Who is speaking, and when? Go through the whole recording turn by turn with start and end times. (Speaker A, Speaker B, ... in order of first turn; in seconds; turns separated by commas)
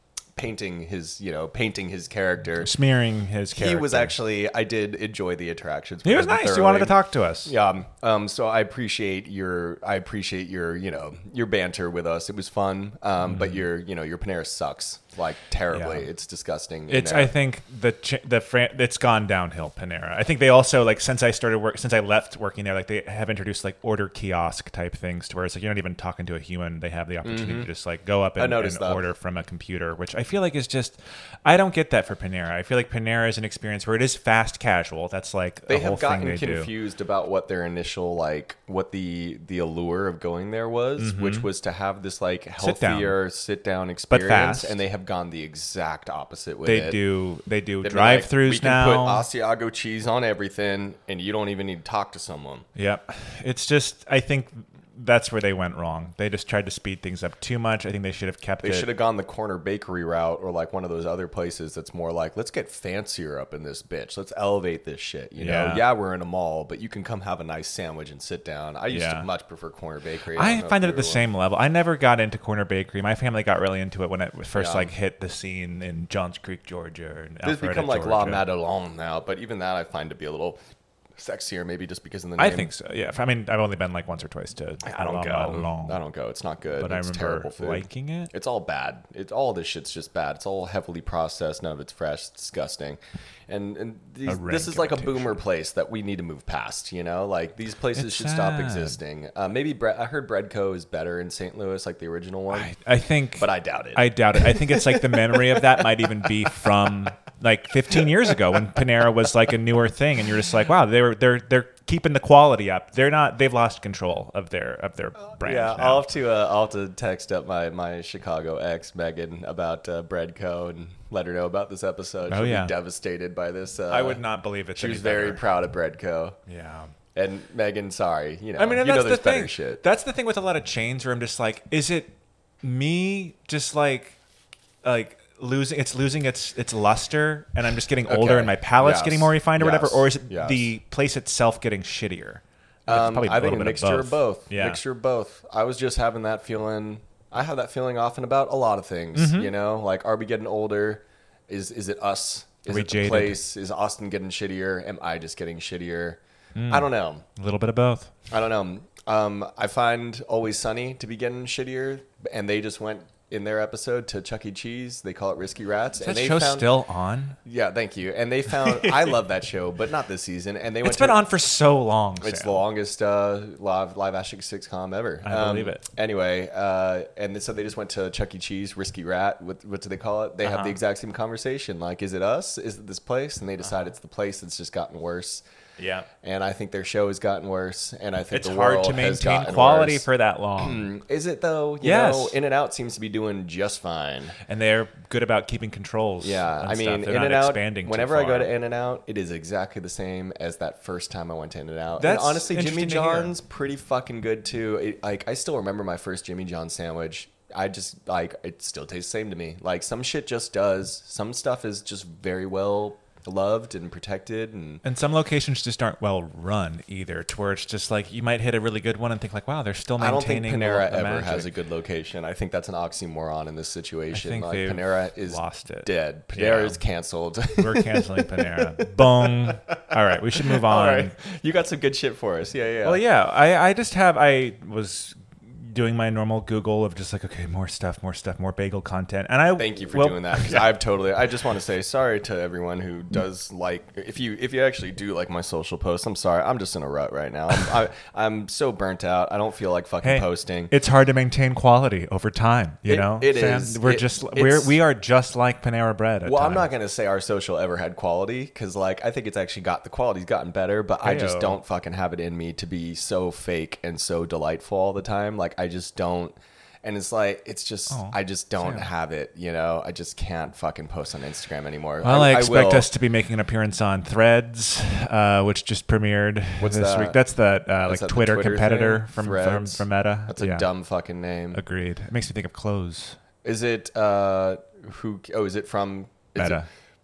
Speaker A: 0.3-2.7, Speaker B: 2.6-4.1, Speaker A: 3.5-17.3, Speaker B: 6.0-7.5, Speaker B: 13.2-13.6, Speaker B: 15.7-16.1, Speaker B: 16.9-36.7, Speaker A: 27.2-27.7, Speaker A: 28.4-29.1, Speaker A: 35.7-47.0, Speaker B: 41.0-41.5, Speaker B: 42.6-43.2, Speaker B: 44.1-44.8, Speaker B: 46.6-49.2, Speaker A: 47.8-52.6, Speaker B: 52.8-58.9, Speaker A: 58.6-71.2, Speaker B: 65.4-65.8, Speaker B: 68.9-69.3, Speaker B: 70.3-78.4, Speaker A: 74.5-74.9, Speaker A: 77.4-80.6, Speaker A: 81.2-82.7, Speaker B: 82.4-86.0, Speaker A: 84.8-102.7, Speaker B: 86.8-88.3, Speaker B: 94.2-95.4, Speaker B: 97.9-99.0, Speaker B: 102.5-116.1, Speaker A: 103.4-105.8, Speaker A: 115.4-124.2, Speaker B: 122.3-122.7, Speaker B: 123.9-125.4, Speaker A: 124.7-126.4, Speaker B: 126.5-126.9, Speaker A: 127.1-129.8, Speaker B: 128.6-134.2, Speaker B: 134.8-144.8, Speaker A: 138.1-140.7, Speaker A: 142.9-157.2, Speaker B: 149.1-149.5, Speaker B: 152.7-153.4, Speaker B: 156.5-158.1, Speaker A: 158.3-166.7, Speaker B: 166.0-167.4, Speaker A: 167.4-171.2, Speaker B: 168.5-169.2, Speaker B: 170.8-172.6, Speaker A: 172.2-185.4, Speaker B: 175.2-175.8, Speaker B: 180.4-180.8, Speaker B: 185.8-186.1, Speaker A: 186.2-190.1, Speaker B: 188.3-190.9, Speaker A: 190.6-194.4, Speaker B: 191.8-192.3, Speaker B: 194.5-198.5, Speaker A: 196.2-214.8, Speaker B: 202.0-203.3, Speaker B: 214.8-221.5, Speaker A: 220.0-229.8, Speaker B: 224.1-226.8, Speaker B: 227.6-231.1, Speaker A: 230.3-233.0, Speaker B: 232.8-240.7, Speaker A: 239.6-250.7, Speaker B: 250.0-256.7, Speaker A: 252.8-254.8, Speaker A: 256.2-272.9, Speaker B: 261.0-261.6, Speaker B: 267.9-268.9, Speaker B: 272.0-280.7, Speaker A: 276.6-277.2, Speaker A: 277.8-281.6, Speaker B: 281.5-283.2, Speaker A: 283.4-286.6, Speaker B: 286.4-286.6